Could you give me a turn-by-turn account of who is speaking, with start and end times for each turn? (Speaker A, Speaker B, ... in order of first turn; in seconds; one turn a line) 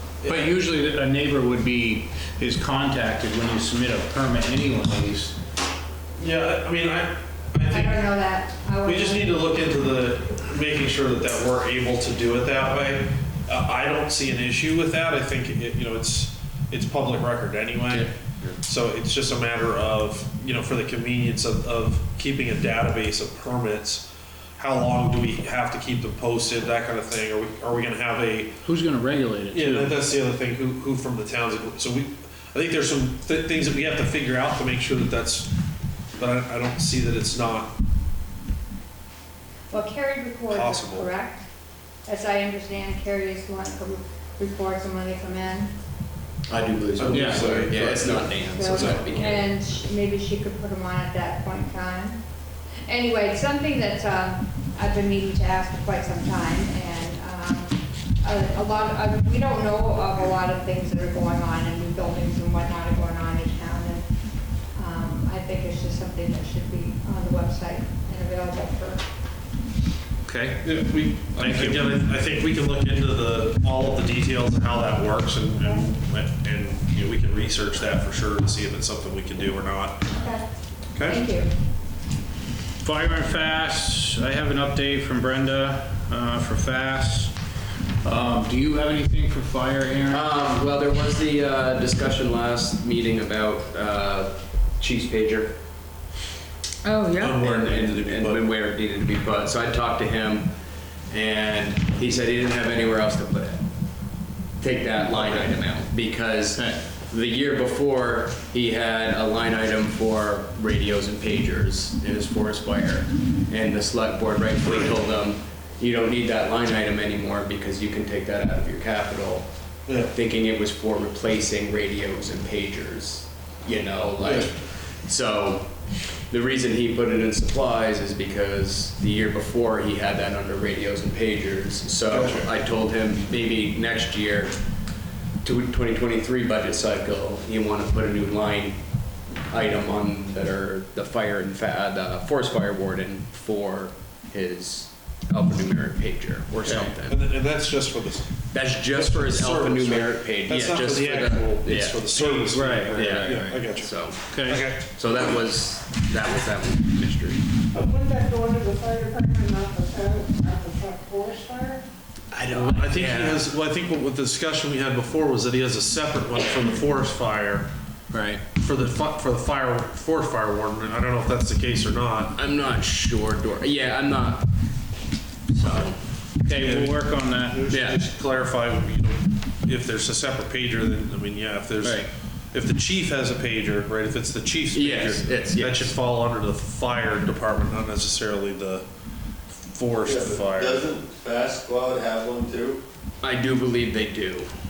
Speaker A: 0.2-0.6
Speaker B: 0.3-5.3
Speaker A: 6.2-8.0
Speaker C: 7.7-9.6
Speaker A: 8.8-24.1
Speaker D: 17.9-18.6
Speaker A: 24.6-28.6
Speaker B: 28.6-29.9
Speaker A: 29.5-35.5
Speaker A: 36.2-37.8
Speaker C: 39.7-41.5
Speaker A: 40.5-41.1
Speaker C: 42.1-45.7
Speaker D: 46.5-49.5
Speaker A: 47.0-49.3
Speaker B: 47.1-47.6
Speaker C: 48.5-52.2
Speaker C: 52.9-64.1
Speaker C: 64.7-69.0
Speaker B: 70.2-70.6
Speaker A: 70.6-80.0
Speaker B: 71.3-72.0
Speaker C: 80.1-80.5
Speaker C: 81.0-81.5
Speaker B: 82.8-87.3
Speaker B: 88.0-90.3
Speaker D: 90.1-95.5
Speaker C: 96.9-97.3
Speaker A: 97.2-98.4
Speaker D: 97.3-100.5
Speaker D: 101.1-103.6
Speaker D: 104.6-119.5
Speaker B: 106.5-106.8
Speaker A: 119.9-120.1
Speaker D: 120.1-125.7
Speaker A: 124.2-124.5
Speaker D: 126.3-134.6
Speaker A: 132.1-132.5
Speaker D: 135.4-138.8
Speaker D: 139.5-147.2
Speaker A: 146.6-154.8
Speaker D: 148.5-154.2
Speaker B: 152.5-153.7
Speaker B: 154.3-154.7
Speaker D: 154.8-157.4
Speaker E: 157.7-161.8
Speaker D: 162.3-163.4
Speaker A: 162.5-167.7
Speaker B: 168.1-168.4
Speaker A: 168.6-172.3
Speaker D: 172.3-174.5
Speaker D: 175.5-176.0
Speaker B: 176.4-177.7
Speaker A: 176.6-188.8
Speaker D: 177.7-178.0
Speaker B: 181.8-182.1
Speaker D: 184.7-185.9
Speaker A: 189.5-190.9
Speaker F: 190.0-192.8
Speaker D: 193.2-194.5